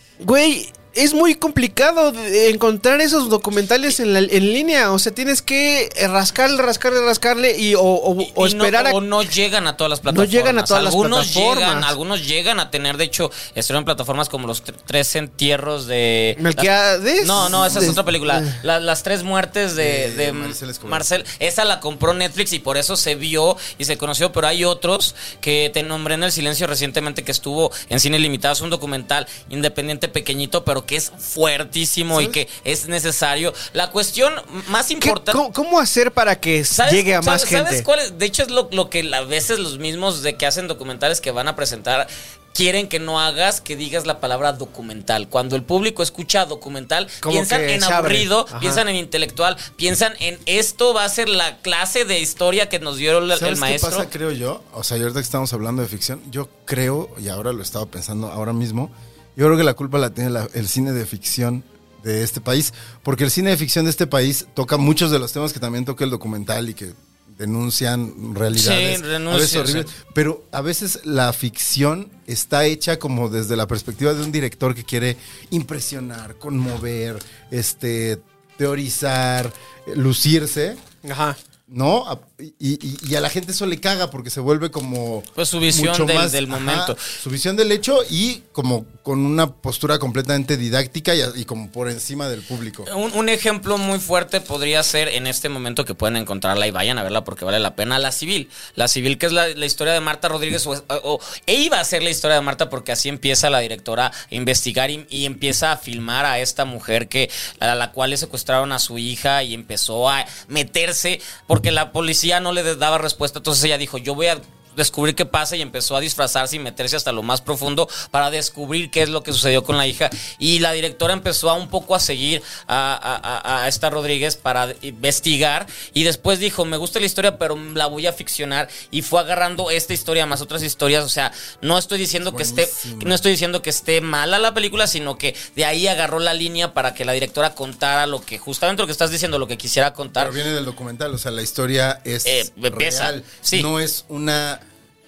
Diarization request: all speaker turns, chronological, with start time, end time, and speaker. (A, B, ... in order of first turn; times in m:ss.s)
0:00.2-0:09.0 A
0:08.2-0:16.7 B
0:10.1-0:11.9 A
0:16.4-0:18.6 A
0:17.2-0:35.4 B
0:17.4-0:18.0 C
0:19.8-0:21.1 C
0:32.1-0:32.4 C
0:35.0-0:37.8 A
0:36.7-0:54.1 B
0:47.2-0:48.8 A
0:53.3-1:20.8 C
1:08.5-1:09.9 B
1:21.0-1:21.4 A
1:21.7-1:32.9 C
1:25.4-1:27.0 B
1:32.9-2:20.4 B
2:12.2-2:13.2 C
2:20.2-2:24.6 C
2:22.2-2:23.7 B